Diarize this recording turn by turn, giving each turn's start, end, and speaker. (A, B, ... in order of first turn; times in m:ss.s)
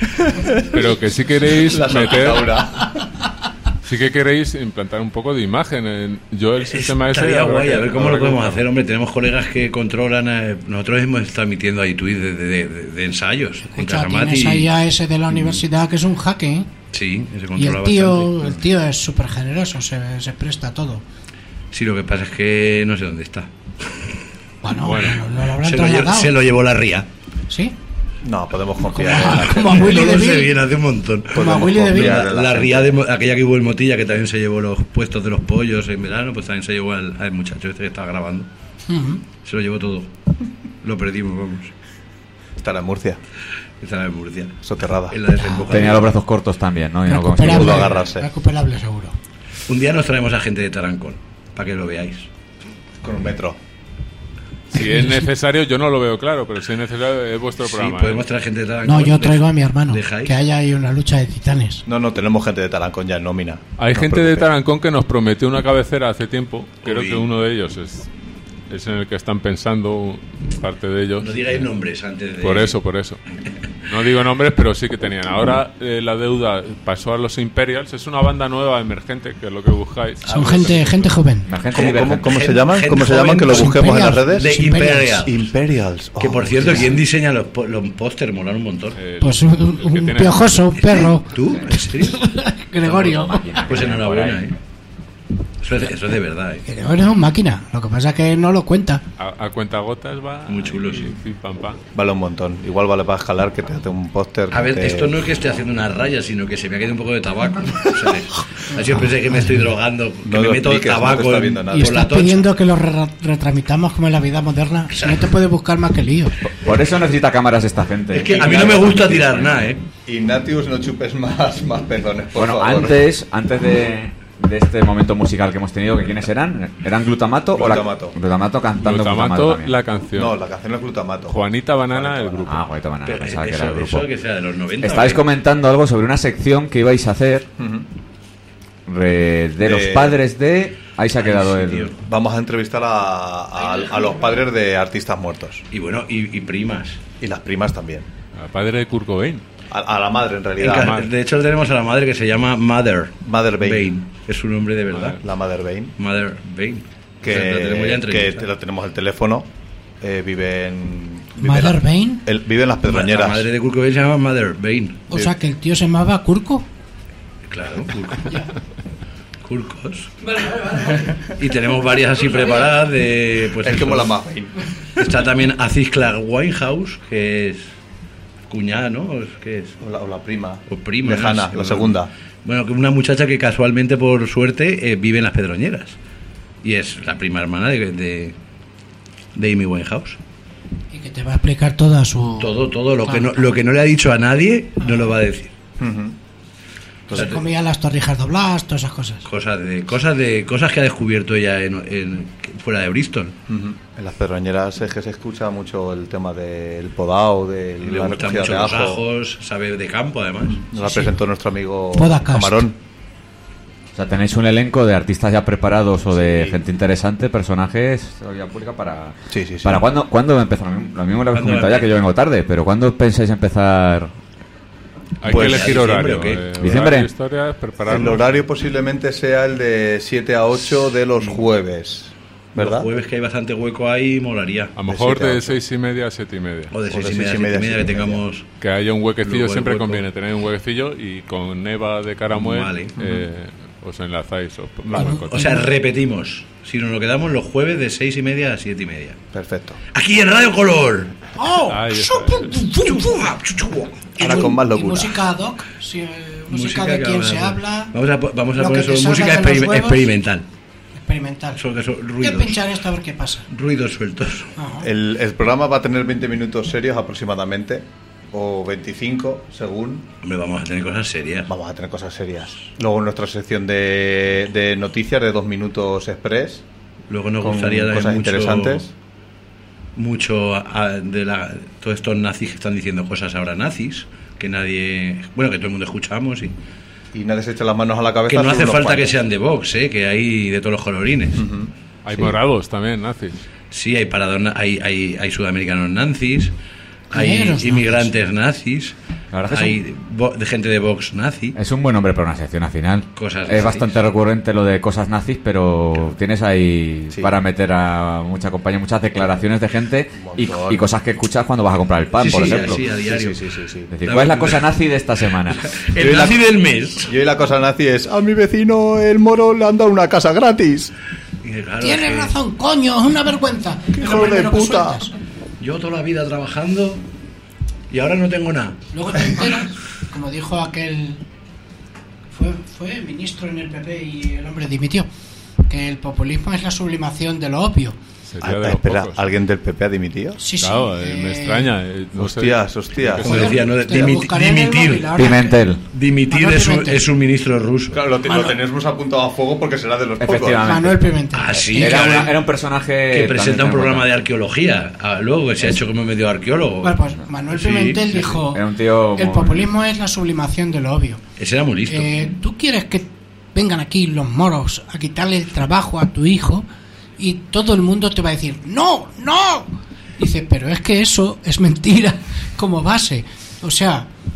0:00.3-0:00.6 A
0:00.7-0:02.5 B
0:01.5-0:03.1 A
0:03.8-0:08.6 B
0:06.6-0:14.7 C
0:13.7-0:16.7 D
0:15.3-0:15.6 C
0:16.9-0:18.5 C
0:17.6-0:21.0 D
0:21.7-0:24.1 C
0:24.6-0:26.3 D
0:24.8-0:25.2 B
0:25.6-0:27.1 C
0:27.5-0:27.8 D
0:28.2-0:29.9 A
0:28.9-0:30.6 D
0:29.2-0:38.5 C
0:31.3-0:33.0 A
0:31.4-0:32.2 D
0:38.9-0:39.2 D
0:39.4-0:40.1 C
0:40.8-0:41.7 C
0:42.6-0:43.2 A
0:43.8-0:46.1 C
0:44.6-0:45.2 A
0:45.7-0:48.0 E
0:47.1-0:49.2 D
0:47.4-0:48.3 A
0:49.7-0:52.3 C
0:53.0-0:53.6 A
0:54.7-0:58.3 B
0:54.8-0:55.1 D
0:57.6-1:00.4 C
0:58.8-1:01.8 D
1:01.9-1:04.5 A
1:03.8-1:08.1 B
1:06.8-1:07.3 C
1:08.7-1:11.7 B
1:11.2-1:12.7 C
1:12.4-1:13.2 B
1:13.9-1:21.1 B
1:20.2-1:20.9 C
1:20.3-1:21.5 D
1:21.5-1:22.4 E
1:21.7-1:27.0 A
1:22.0-1:25.4 C
1:23.5-1:25.2 D
1:26.2-1:29.0 C
1:29.0-1:30.7 B
1:29.2-1:31.3 D
1:30.8-1:32.2 C
1:32.1-1:33.7 D
1:32.8-1:34.5 E
1:33.7-1:34.6 C
1:35.6-1:36.7 C
1:36.7-1:39.0 D
1:39.2-1:41.8 B
1:40.5-1:41.1 C
1:41.9-1:45.2 A
1:44.5-1:52.4 C
1:50.2-1:52.3 A
1:51.7-1:56.4 D
1:56.4-1:59.8 E
1:58.1-1:59.8 C
2:00.1-2:03.0 A
2:02.4-2:09.8 E
2:07.5-2:08.2 A
2:08.8-2:10.4 B
2:10.2-2:12.6 A
2:11.3-2:12.6 B
2:12.5-2:14.1 E
2:13.0-2:15.2 C
2:14.8-2:17.5 E
2:17.6-2:17.9 A
2:18.9-2:21.9 E
2:19.6-2:20.2 A
2:21.2-2:22.0 C
2:22.0-2:25.6 A
2:25.7-2:27.0 C
2:27.2-2:28.1 A
2:28.4-2:29.4 B
2:29.7-2:31.0 A
2:30.6-2:35.2 C
2:33.2-2:33.9 A
2:34.9-2:35.2 B
2:35.2-2:35.9 A
2:36.0-2:38.5 C
2:37.2-2:39.5 A
2:40.0-2:43.5 A
2:41.4-2:42.2 D
2:42.8-2:45.0 C
2:45.1-2:46.7 D
2:47.5-2:48.4 C
2:49.4-2:50.2 C
2:50.4-2:51.0 D
2:51.4-2:54.1 C
2:53.6-2:54.5 A
2:55.0-2:57.7 C
2:58.5-2:59.8 C
2:59.8-3:02.1 A
3:00.7-3:06.0 C
3:06.6-3:08.4 C
3:09.4-3:10.2 C
3:10.9-3:13.5 D
3:12.4-3:15.5 C
3:15.8-3:16.2 A
3:17.1-3:17.4 A
3:17.1-3:19.2 D
3:19.3-3:23.4 C
3:23.5-3:29.0 A
3:27.8-3:30.6 C
3:30.5-3:32.8 A
3:30.8-3:31.1 D
3:32.0-3:32.6 D
3:33.9-3:44.1 E
3:39.3-3:39.8 A
3:41.3-3:41.9 C
3:45.2-3:48.4 B
3:45.3-3:46.5 C
3:45.3-3:45.8 A
3:46.6-3:47.1 E
3:47.8-3:52.9 A
3:52.6-3:54.8 C
3:54.8-3:56.7 B
3:54.9-3:55.6 A
3:56.7-3:58.5 C
3:56.9-3:58.2 A
3:58.6-4:05.6 B
3:59.2-4:00.0 C
4:02.3-4:03.0 C
4:03.0-4:03.2 A
4:05.0-4:05.7 D
4:05.0-4:09.2 C
4:09.3-4:09.8 A
4:09.9-4:11.2 C
4:11.4-4:13.3 D
4:11.7-4:12.6 B
4:12.7-4:14.1 C
4:14.2-4:17.9 D
4:14.2-4:15.2 A
4:16.5-4:20.5 C
4:18.6-4:20.1 D
4:21.0-4:21.6 D
4:21.6-4:22.6 C
4:22.2-4:23.4 D
4:23.5-4:24.5 C
4:24.6-4:24.9 D
4:24.8-4:30.1 A
4:30.2-4:31.5 C
4:31.5-4:36.6 A
4:37.1-4:38.8 C
4:37.4-4:38.9 A
4:40.0-4:46.5 C
4:47.1-4:49.2 A
4:48.3-4:51.4 C
4:51.4-4:52.3 A
4:52.0-4:53.4 B
4:53.7-4:56.5 C
4:57.1-4:58.1 D
4:57.1-4:59.0 C
4:59.3-4:59.8 E
4:59.5-5:01.6 C
5:01.6-5:12.8 E
5:03.2-5:03.9 C
5:10.2-5:10.9 A
5:12.2-5:13.4 C
5:12.4-5:13.9 A
5:13.9-5:16.4 E
5:14.0-5:14.7 C
5:15.6-5:17.1 C
5:17.1-5:20.9 A
5:21.4-5:22.3 C
5:21.8-5:25.1 D
5:23.9-5:25.0 A
5:25.6-5:27.0 C
5:27.9-5:28.8 C
5:28.9-5:31.2 D
5:32.3-5:35.1 D
5:35.7-5:38.0 D
5:38.3-5:39.2 B
5:38.4-5:40.4 A
5:40.4-5:41.7 D
5:40.6-5:43.6 B
5:42.2-5:44.1 A
5:43.2-5:45.2 C
5:43.2-5:45.6 D
5:45.2-5:45.8 E
5:45.9-5:48.0 C
5:46.3-5:47.0 D
5:47.9-5:50.7 A
5:48.3-5:48.6 D
5:50.2-5:54.1 E
5:50.6-5:52.1 D
5:51.3-5:52.4 C
5:53.1-5:57.0 C
5:56.8-5:58.6 D
5:57.5-5:58.2 C
5:58.4-5:59.7 E
5:59.2-6:01.2 D
6:01.4-6:02.3 C
6:01.9-6:06.7 D
6:07.2-6:14.1 D